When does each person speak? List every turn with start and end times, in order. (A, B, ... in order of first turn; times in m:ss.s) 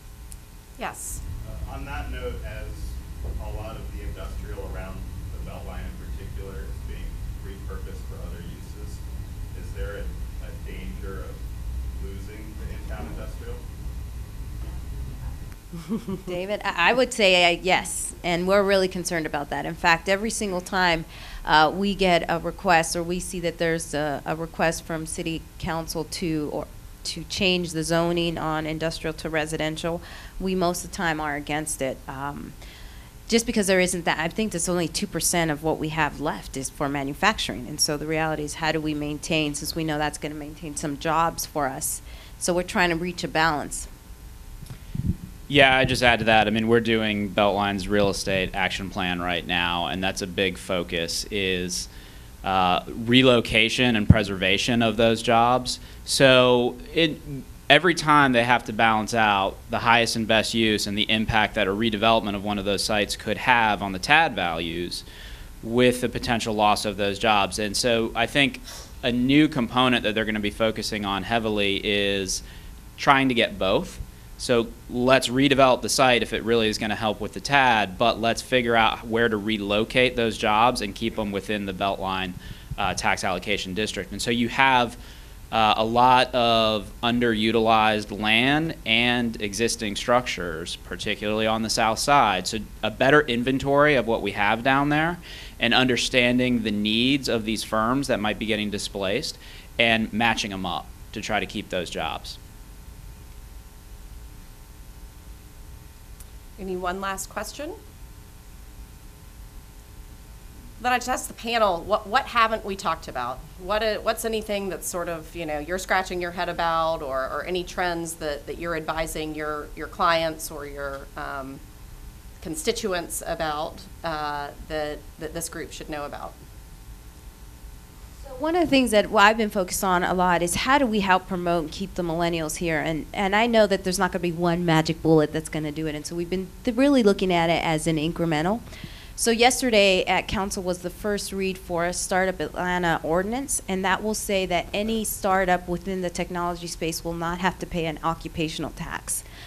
0:00.8-0:01.2 A
0:01.4-0:09.0 B
0:09.5-0:11.4 B
0:11.9-0:13.6 B
0:16.2-0:32.5 C
0:33.3-0:43.9 C
0:45.5-0:51.9 D
0:52.4-1:05.0 D
1:05.6-1:12.4 D
1:13.0-1:25.0 D
1:25.5-1:42.4 D
1:46.6-1:47.8 A
1:50.8-2:01.6 A
2:02.4-2:06.3 A
2:08.2-2:18.6 C
2:19.2-2:29.2 C